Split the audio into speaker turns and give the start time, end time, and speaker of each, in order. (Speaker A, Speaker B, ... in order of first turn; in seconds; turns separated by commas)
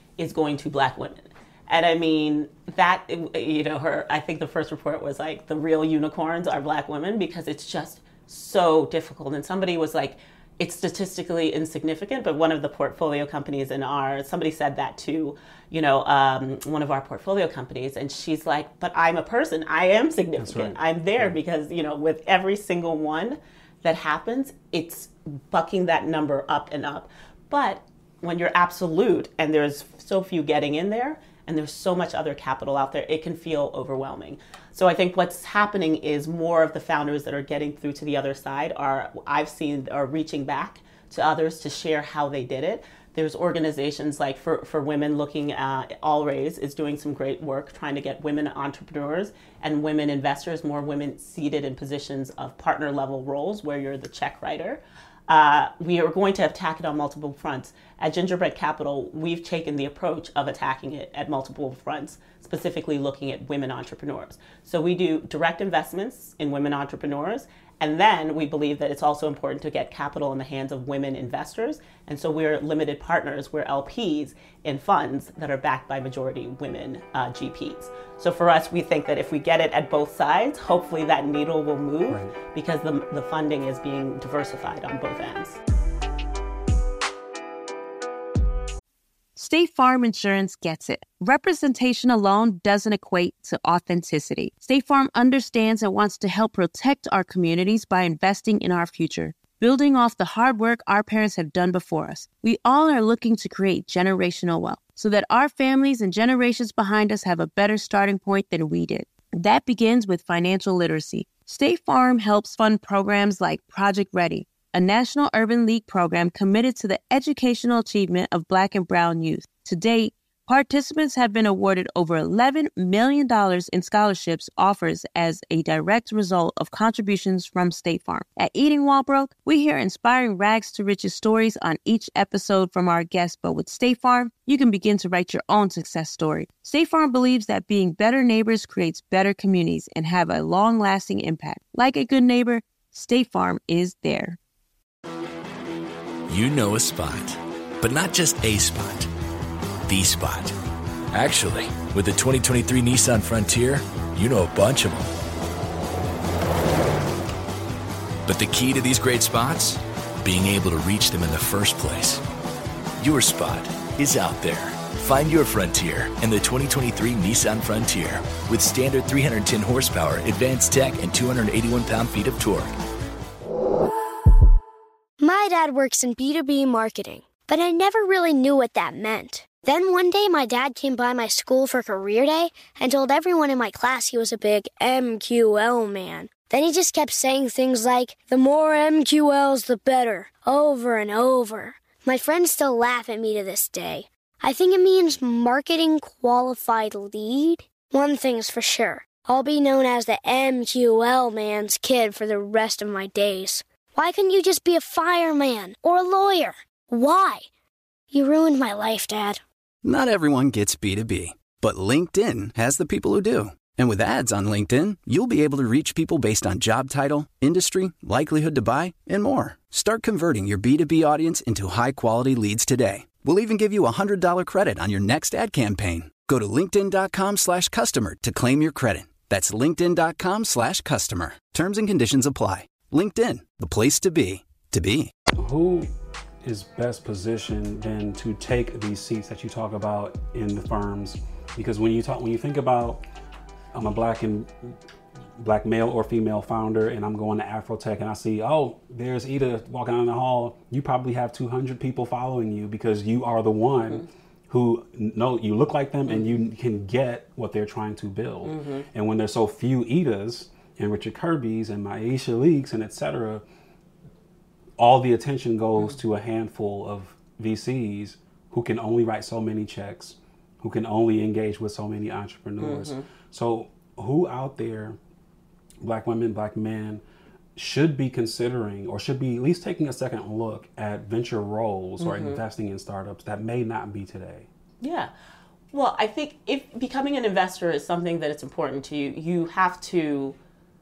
Speaker A: 0.2-85.6, Speaker B: 20.4-21.4, Speaker B: 82.1-82.3, Speaker C: 89.3-144.4, Speaker D: 146.3-149.1, Speaker D: 149.9-150.5, Speaker D: 151.1-155.1, Speaker D: 158.2-162.2, Speaker D: 163.0-172.7, Speaker E: 175.2-207.5, Speaker E: 208.1-209.4, Speaker F: 209.8-235.1, Speaker B: 235.3-235.9, Speaker B: 236.4-243.0, Speaker B: 243.7-244.7, Speaker B: 245.4-263.4, Speaker A: 258.4-258.8, Speaker B: 264.8-275.0, Speaker A: 272.6-273.1, Speaker B: 275.8-277.0, Speaker B: 277.6-284.5, Speaker A: 282.0-282.4, Speaker A: 284.8-285.1, Speaker A: 285.7-290.4